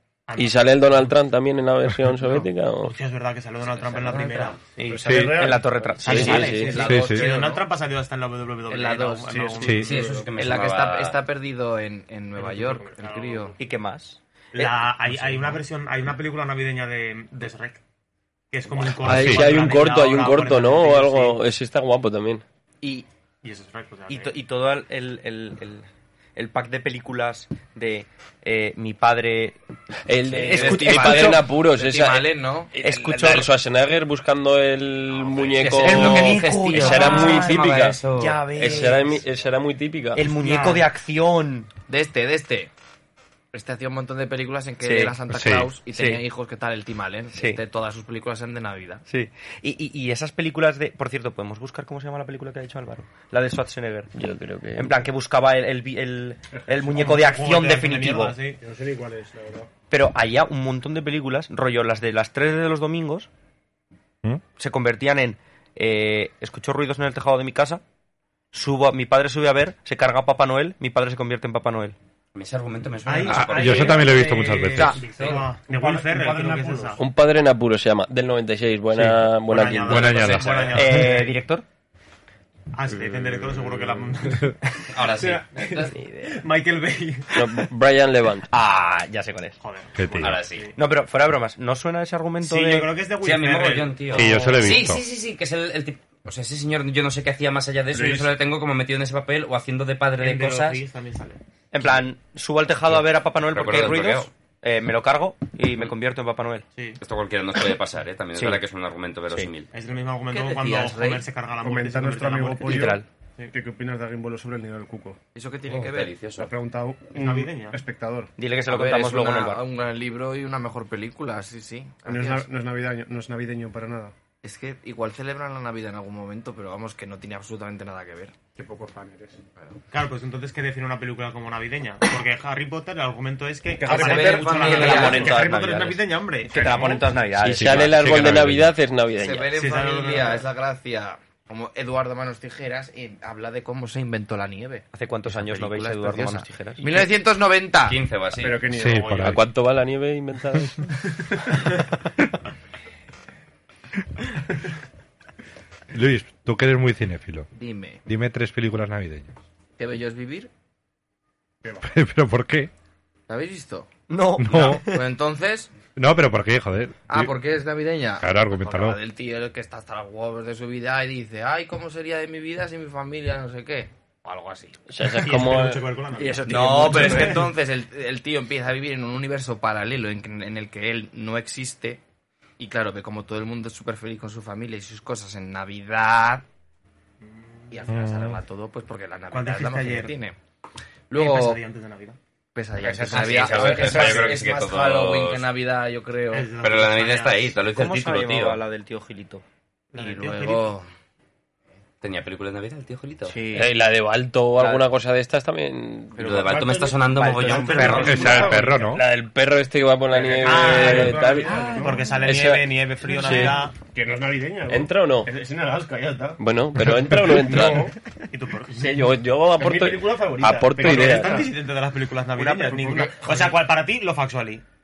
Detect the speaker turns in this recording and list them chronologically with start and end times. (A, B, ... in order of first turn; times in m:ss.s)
0:00.3-0:01.1 A
0:00.4-0:02.9 B
0:02.3-0:05.0 A
0:03.9-0:04.6 C
0:04.8-0:06.8 D
0:04.9-0:05.8 E
0:05.0-0:05.4 F
0:06.0-0:10.2 A
0:06.0-0:06.8 B
0:06.0-0:07.6 C
0:06.8-0:07.3 F
0:08.7-0:09.6 C
0:09.3-0:10.3 E
0:09.8-0:11.2 G
0:10.3-0:13.6 C
0:12.4-0:13.6 A
0:13.6-0:14.8 D
0:14.5-0:17.8 A
0:18.5-0:21.4 A
0:19.0-0:22.4 B
0:19.0-0:19.5 F
0:23.4-0:24.3 A
0:24.1-0:29.6 D
0:30.0-0:38.0 B
0:30.2-0:31.4 D
0:30.4-0:32.8 C
0:32.8-0:33.5 D
0:35.1-0:38.4 G
0:35.6-0:39.2 D
0:38.5-0:40.2 B
0:40.1-0:41.7 D
0:40.3-0:40.8 A
0:41.9-0:42.7 C
0:43.5-0:49.0 C
0:44.8-0:45.2 D
0:45.3-0:45.7 F
0:45.9-0:46.2 D
0:47.3-0:47.6 D
0:49.1-0:54.1 D
0:54.1-0:55.0 B
0:54.8-0:58.4 D
0:56.5-0:57.1 E
0:56.9-0:58.6 A
0:58.6-0:59.7 E
0:59.9-1:03.3 D
1:04.6-1:07.8 D
1:08.5-1:12.0 D
1:12.3-1:14.3 G
1:13.0-1:17.0 A
1:13.3-1:15.0 F
1:14.8-1:15.3 D
1:15.0-1:15.4 G
1:15.1-1:17.0 E
1:17.0-1:20.4 B
1:19.3-1:21.4 A
1:19.8-1:21.0 F
1:20.7-1:21.6 D
1:22.7-1:27.6 A
1:24.9-1:25.9 G
1:27.3-1:28.5 B
1:28.5-1:29.6 D
1:29.6-1:30.7 A
1:30.0-1:30.4 F
1:30.2-1:30.7 G
1:30.7-1:32.9 D
1:32.4-1:34.9 A
1:33.2-1:40.8 G
1:34.1-1:35.0 F
1:37.9-1:38.3 E
1:40.2-1:41.4 A
1:41.7-1:46.6 D
1:43.4-1:44.3 G
1:47.0-1:49.7 G
1:48.4-1:48.6 D
1:49.7-1:53.5 A
1:50.3-1:51.2 C
1:51.6-1:55.2 E
1:52.6-1:53.0 D
1:55.3-1:56.1 C
1:55.7-1:56.5 G
1:56.4-1:58.3 E
1:57.1-1:57.8 A
1:58.4-1:59.6 D
1:58.7-2:02.5 C
2:02.0-2:04.1 E
2:04.4-2:08.3 C
2:08.6-2:09.4 E
2:09.9-2:17.0 A
2:13.8-2:15.4 E
2:13.9-2:15.3 C
2:13.9-2:18.4 D
2:16.6-2:17.0 E
2:17.4-2:18.7 F
2:17.4-2:19.5 B
2:19.2-2:28.0 C
2:19.5-2:20.4 A
2:24.9-2:27.0 D
2:27.8-2:28.6 G
2:28.4-2:29.2 E
2:28.7-2:29.4 F
2:28.8-2:29.4 A
2:29.2-2:30.9 B
2:35.9-2:37.5 F
2:37.5-2:38.0 C
2:38.0-2:39.3 F
2:39.8-2:40.5 C
2:41.6-2:41.9 E
2:41.8-2:42.7 F
2:43.3-2:43.9 C
2:44.1-2:45.0 D
2:44.4-2:44.8 F
2:44.6-2:45.7 C
2:46.0-2:47.3 F
2:47.1-2:54.8 C
2:48.2-2:49.0 F
2:54.9-2:55.9 B
2:55.0-2:57.5 A
2:56.2-3:02.0 C
2:56.4-2:57.4 D
3:02.6-3:06.4 C
3:07.2-3:07.8 A
3:07.7-3:10.4 C
3:07.9-3:08.4 F
3:09.3-3:10.1 A
3:11.1-3:11.6 C
3:11.1-3:12.2 A
3:12.5-3:16.5 C
3:12.8-3:14.4 A
3:13.1-3:15.5 G
3:13.9-3:14.2 E
3:16.3-3:17.5 A
3:16.6-3:18.6 G
3:17.7-3:19.4 D
3:19.9-3:20.7 A
3:19.9-3:20.9 C
3:22.0-3:23.4 G
3:23.3-3:23.7 D
3:23.5-3:26.2 B
3:24.6-3:24.8 D
3:26.1-3:28.5 D
3:26.2-3:28.2 G
3:26.4-3:27.0 E
3:27.4-3:28.8 A
3:27.7-3:28.9 E
3:28.0-3:29.0 F
3:28.9-3:33.6 B
3:30.1-3:32.2 E
3:30.4-3:33.8 A
3:33.2-3:37.9 E
3:34.7-3:35.3 B
3:36.4-3:37.9 B
3:38.3-3:39.1 A
3:38.8-3:41.4 B
3:39.6-3:41.5 E
3:40.7-3:44.6 A
3:42.4-3:43.6 E